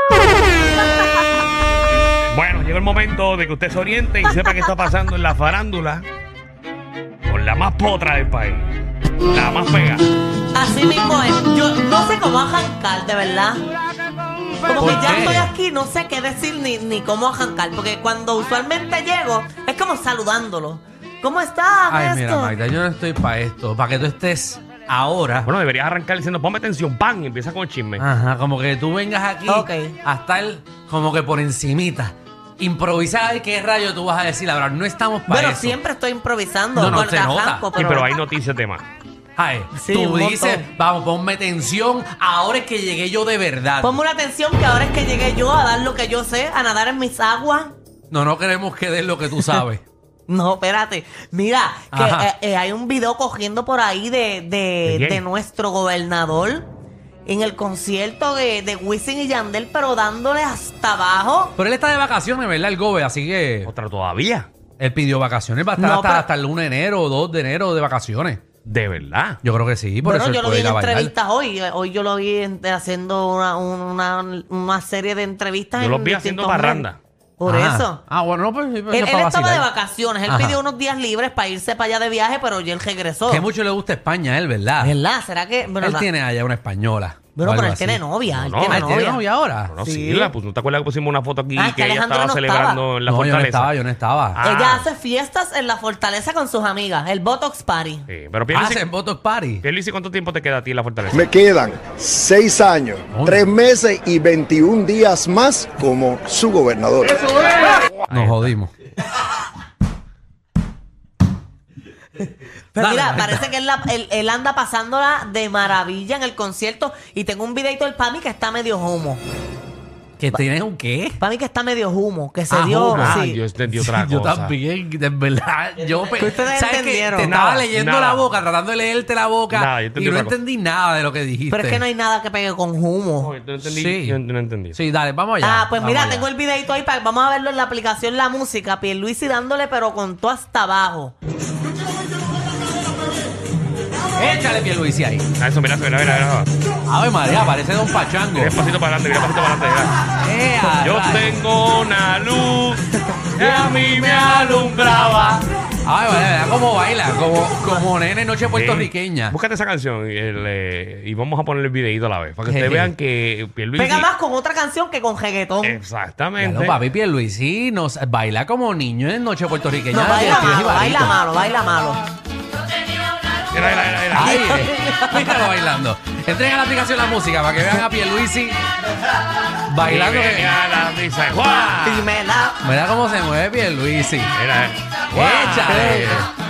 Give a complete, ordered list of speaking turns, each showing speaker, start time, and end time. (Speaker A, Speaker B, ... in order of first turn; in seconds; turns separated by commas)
Speaker A: 0.6-1.1, Speaker B: 2.3-6.1, Speaker A: 4.2-4.7, Speaker B: 7.3-10.1, Speaker A: 10.5-13.6, Speaker A: 14.6-22.6, Speaker C: 14.7-15.5, Speaker C: 21.9-25.5, Speaker B: 25.4-28.1, Speaker C: 28.0-35.8, Speaker A: 29.5-30.0, Speaker A: 35.3-38.2, Speaker C: 36.8-37.7, Speaker B: 37.8-38.9, Speaker C: 39.4-44.0, Speaker A: 39.7-40.7, Speaker A: 43.8-47.8, Speaker C: 48.1-49.8, Speaker A: 50.3-56.7, Speaker C: 51.9-52.3, Speaker B: 54.9-55.2, Speaker A: 57.2-61.5, Speaker C: 61.6-63.7, Speaker B: 63.6-64.5, Speaker C: 64.8-68.4, Speaker A: 65.8-66.3, Speaker B: 68.7-69.4, Speaker C: 69.4-71.1, Speaker A: 70.0-76.8, Speaker B: 75.8-77.0, Speaker A: 77.4-78.0, Speaker C: 77.5-79.7, Speaker A: 78.9-83.5, Speaker C: 80.3-80.6, Speaker C: 83.3-85.0, Speaker A: 84.8-86.1, Speaker C: 85.8-88.0, Speaker A: 87.3-89.2, Speaker B: 88.3-89.1, Speaker C: 88.6-89.8, Speaker B: 89.7-93.8, Speaker A: 89.8-90.3, Speaker A: 91.6-92.8, Speaker C: 93.1-94.5, Speaker B: 94.3-94.8, Speaker A: 94.4-98.1, Speaker B: 98.1-98.9, Speaker C: 98.5-99.7, Speaker B: 99.6-101.4, Speaker D: 101.1-107.3, Speaker C: 103.1-103.5, Speaker C: 107.3-108.7, Speaker B: 107.8-108.6, Speaker A: 112.7-119.2, Speaker C: 112.8-113.5, Speaker C: 120.2-121.2, Speaker A: 121.2-123.4, Speaker C: 122.5-131.8, Speaker B: 122.9-124.6, Speaker A: 126.2-127.3, Speaker B: 127.2-128.3, Speaker B: 129.5-130.4, Speaker A: 131.5-133.3, Speaker B: 133.2-134.8, Speaker C: 133.7-134.2, Speaker C: 134.7-136.3, Speaker A: 135.4-141.2, Speaker C: 144.2-145.3, Speaker B: 145.4-146.5, Speaker C: 146.9-148.6, Speaker B: 148.3-150.1, Speaker C: 150.2-151.4, Speaker B: 150.8-155.5, Speaker C: 153.4-154.7, Speaker C: 155.8-159.4, Speaker B: 158.5-164.1, Speaker C: 162.5-162.9, Speaker A: 163.8-165.8, Speaker B: 165.6-166.8, Speaker C: 166.4-171.2, Speaker A: 169.9-172.0, Speaker B: 173.5-174.4, Speaker C: 174.1-178.6, Speaker A: 174.2-175.4, Speaker C: 179.7-180.6, Speaker B: 179.8-182.1, Speaker A: 181.8-182.6, Speaker C: 182.6-184.3, Speaker B: 184.3-186.1, Speaker C: 185.1-186.3, Speaker A: 185.2-186.2